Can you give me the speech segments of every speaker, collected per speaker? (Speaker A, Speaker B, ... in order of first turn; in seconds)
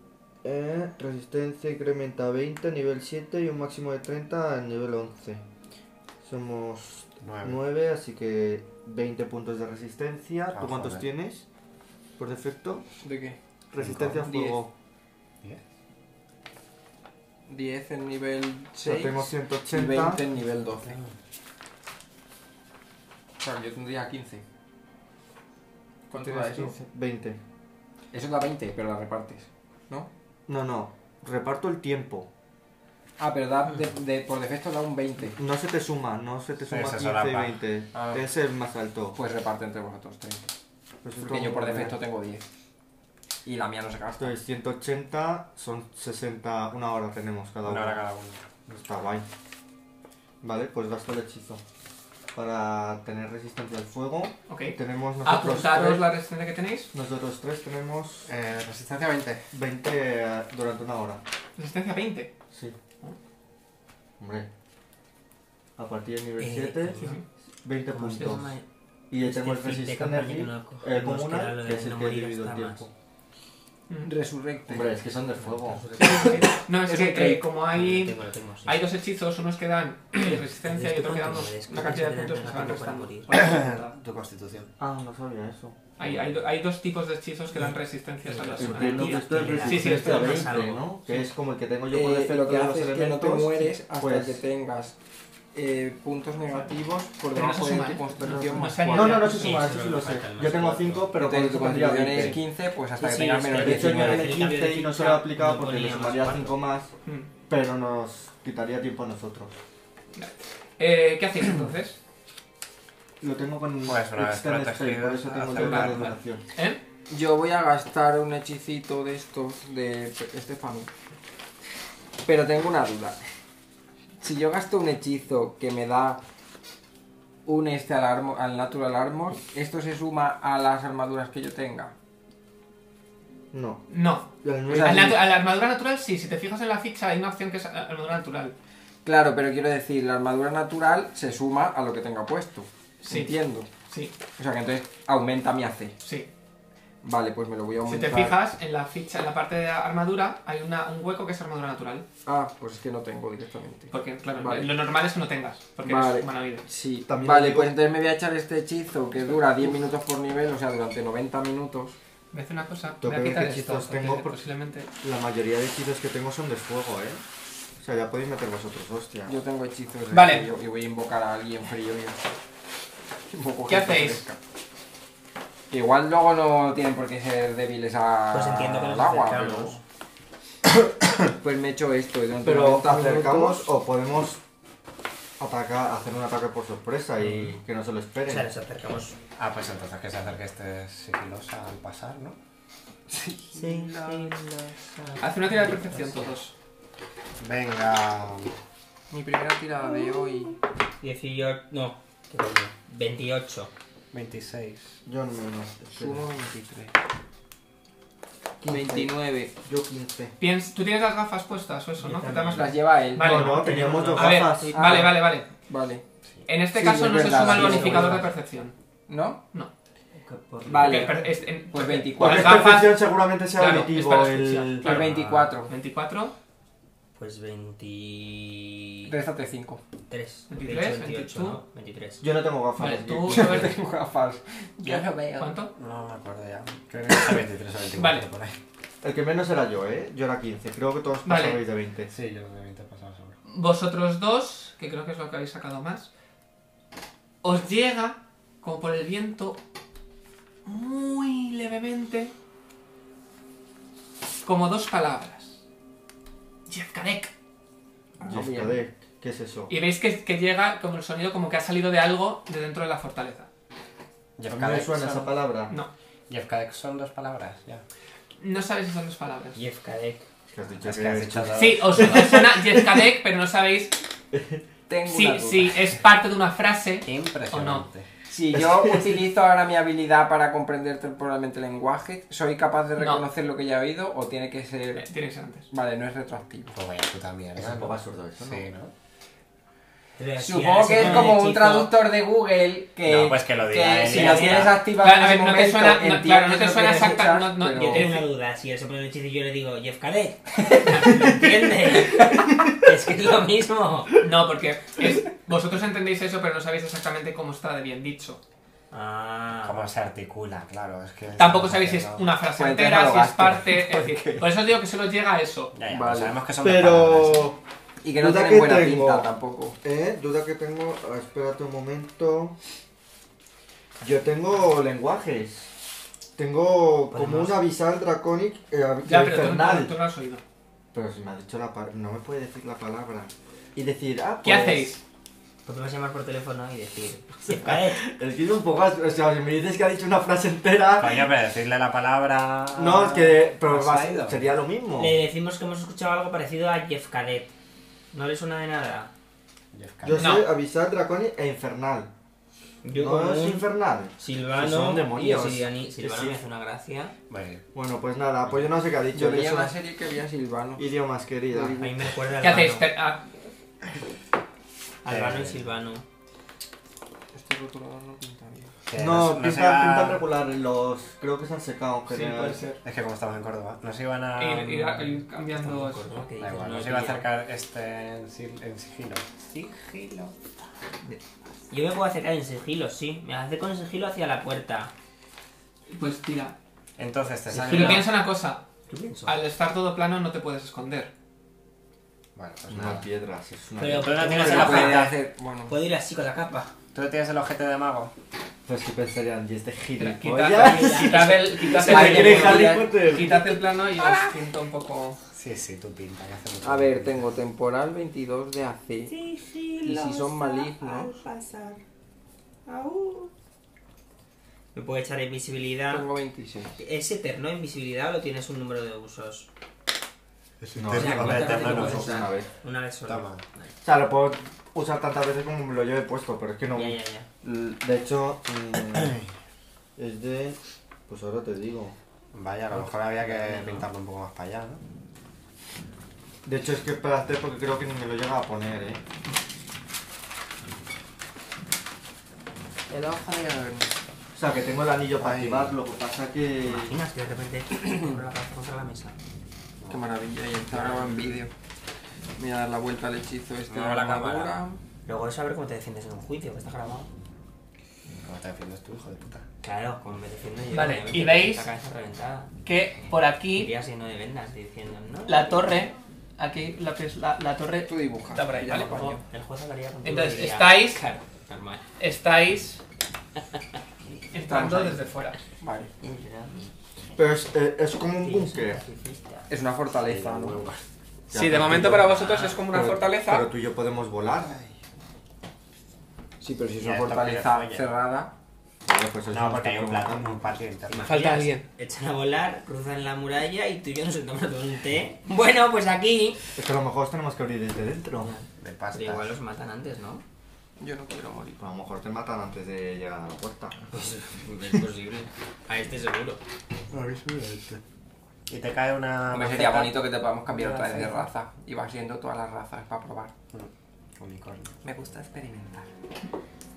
Speaker A: 0.4-5.4, 6.2-11.5, 12.2-12.9, 13.7-14.7, 18.8-20.2, 26.1-27.4, 30.5-32.3, 35.4-39.2, 41.0-42.0, 44.2-48.0, 48.7-49.3, 50.4-51.6, 52.3-56.1, 56.9-58.3, 59.5-61.2, 64.2-64.5, 65.8-67.0, 67.6-68.6, 69.1-72.9, 74.7-76.0, 84.8-85.8, 88.6-94.4, 98.9-102.4, 103.5-106.9, 107.5-109.6, 113.2-116.4, 133.5-133.9, 134.4-135.2, 157.1-157.8, 163.0-164.3, 165.0-167.2, 167.8-169.3, 182.4-184.4, 185.4-188.5, 205.1-206.3, 208.6-210.3, 213.2-215.2, 222.1-225.0, 232.2-233.8, 239.0-242.1, 258.2-259.7, 264.5-265.8, 270.5-273.1, 274.3-274.6, 278.5-279.2, 287.6-288.7, 316.6-317.6, 318.2-319.3, 319.8-322.6, 324.0-325.7, 326.4-329.9, 330.9-334.9, 337.5-341.2, 342.8-345.2, 350.0-352.1, 352.9-356.4, 357.7-359.7, 360.8-362.1, 369.0-372.7, 392.7-394.7, 398.7-403.4, 420.8-422.5, 423.8-429.2, 430.0-432.0, 436.4-439.0, 444.4-447.0, 477.2-478.8, 481.3-482.2, 482.7-484.6, 488.9-490.5, 496.6-498.3, 501.6-503.8
Speaker B: 7.2-7.6, 10.5-11.1, 13.8-14.3, 20.9-21.1, 36.7-38.2, 47.6-48.4, 58.3-59.4, 83.3-84.7, 113.8-116.1, 189.4-192.4, 197.4-198.6, 204.1-205.0, 224.9-225.5, 235.8-238.6, 242.1-243.3, 264.4-265.4, 266.3-267.8, 270.8-272.4, 277.1-278.1, 286.7-288.9, 293.1-294.8, 309.6-312.3, 315.7-317.5, 341.0-344.5, 349.7-350.3, 357.3-357.6, 365.1-365.7, 368.9-370.3, 372.8-375.2, 376.4-380.4, 387.0-388.1, 392.4-393.1, 394.0-395.1, 396.9-398.1, 405.3-407.2, 420.6-422.2, 423.1-423.4, 432.3-434.8, 445.2-445.8, 453.7-454.5, 458.2-459.4, 480.1-480.8, 481.7-482.0, 486.8-487.9, 489.3-491.3, 498.6-499.3, 506.9-507.8, 508.5-509.9, 510.6-511.1, 513.5-514.7
Speaker C: 13.0-13.4, 14.2-14.6, 17.5-21.0, 23.4-24.4, 26.1-26.8, 28.1-30.1, 33.2-35.4, 39.1-40.5, 41.2-42.4, 43.5-44.4, 74.0-75.0, 76.8-77.5, 91.9-95.0, 95.5-99.2, 101.2-104.3, 117.1-120.9, 122.2-123.2, 124.2-126.2, 127.5-131.9, 134.7-135.2, 139.0-143.7, 144.4-146.0, 147.0-148.4, 152.3-154.8, 155.8-162.0, 169.3-172.3, 173.3-174.4, 175.7-179.8, 181.3-183.7, 193.1-194.4, 199.1-200.6, 205.9-206.9, 208.7-209.5, 212.3-216.0, 216.7-218.3, 219.1-219.4, 220.7-222.8, 224.8-225.7, 229.1-229.8, 233.3-235.6, 258.2-258.8, 274.9-275.8, 278.3-285.1, 285.7-286.8, 290.4-298.2, 312.6-314.5, 315.9-316.4, 318.0-319.8, 359.1-360.9, 367.3-368.8, 387.5-388.0, 394.3-395.7, 401.8-402.9, 406.6-409.1, 409.8-411.1, 415.9-416.8, 421.2-421.9, 442.9-443.9, 449.9-451.5, 452.4-454.8, 467.9-469.2, 474.5-475.0, 475.6-475.9, 479.5-480.6, 486.4-488.3, 500.8-501.6, 509.3-513.3, 514.8-515.9
Speaker D: 54.5-56.9, 61.6-62.3, 67.0-67.2, 76.0-84.0, 86.0-90.5, 97.3-99.7, 110.2-112.0, 115.5-116.8, 133.9-138.5, 143.0-144.1, 146.0-146.3, 147.9-152.1, 153.9-156.7, 162.3-164.9, 170.1-170.5, 173.7-174.2, 195.2-196.5, 210.4-215.5, 216.5-218.8, 220.8-225.1, 225.7-226.3, 230.5-231.6, 232.8-233.7, 235.4-235.7, 238.0-238.2, 241.2-241.6, 243.5-246.1, 247.4-249.6, 250.7-252.3, 254.4-255.6, 256.7-257.3, 259.7-263.5, 268.4-269.6, 271.6-274.0, 275.1-277.9, 283.0-283.2, 284.9-285.7, 291.0-291.3, 295.0-298.2, 304.2-308.4, 311.4-315.7, 329.0-330.4, 334.4-335.0, 350.1-350.5, 362.4-363.3, 372.1-372.8, 374.4-376.2, 385.9-386.6, 387.6-388.6, 389.2-391.1, 400.0-405.2, 460.7-461.7, 462.6-463.7, 465.3-469.2, 470.0-471.1, 472.0-472.8, 474.3-475.4, 481.3-483.5, 491.0-491.7
Speaker E: 66.4-67.2, 67.9-68.7, 69.2-72.9, 75.4-76.5, 77.7-78.8, 80.7-83.3, 88.3-91.3, 99.1-101.1, 103.0-106.6, 178.3-179.8, 188.3-189.2, 193.5-196.3, 201.0-203.7, 212.0-212.7, 213.7-215.1, 217.3-218.3, 220.2-221.2, 227.2-229.1, 230.1-232.2, 269.6-270.3, 290.2-291.9, 294.1-294.7, 297.7-304.2, 308.9-309.8, 327.1-327.7, 335.6-338.0, 345.0-347.5, 348.1-349.1, 352.8-357.1, 361.5-362.9, 365.0-366.0, 375.6-377.3, 381.7-384.9, 387.6-388.0, 388.9-389.4, 393.8-395.1, 395.7-396.7, 400.5-403.4, 404.0-404.3, 409.1-411.8, 412.7-413.3, 414.7-416.1, 416.8-419.5, 420.9-423.7, 426.7-427.3, 433.3-433.8, 446.6-449.2, 450.7-451.2, 455.1-457.1, 459.6-462.5, 463.5-465.5, 469.2-471.8, 476.0-476.7, 478.2-479.5, 482.2-482.6, 490.9-496.4, 498.2-500.2, 503.9-506.4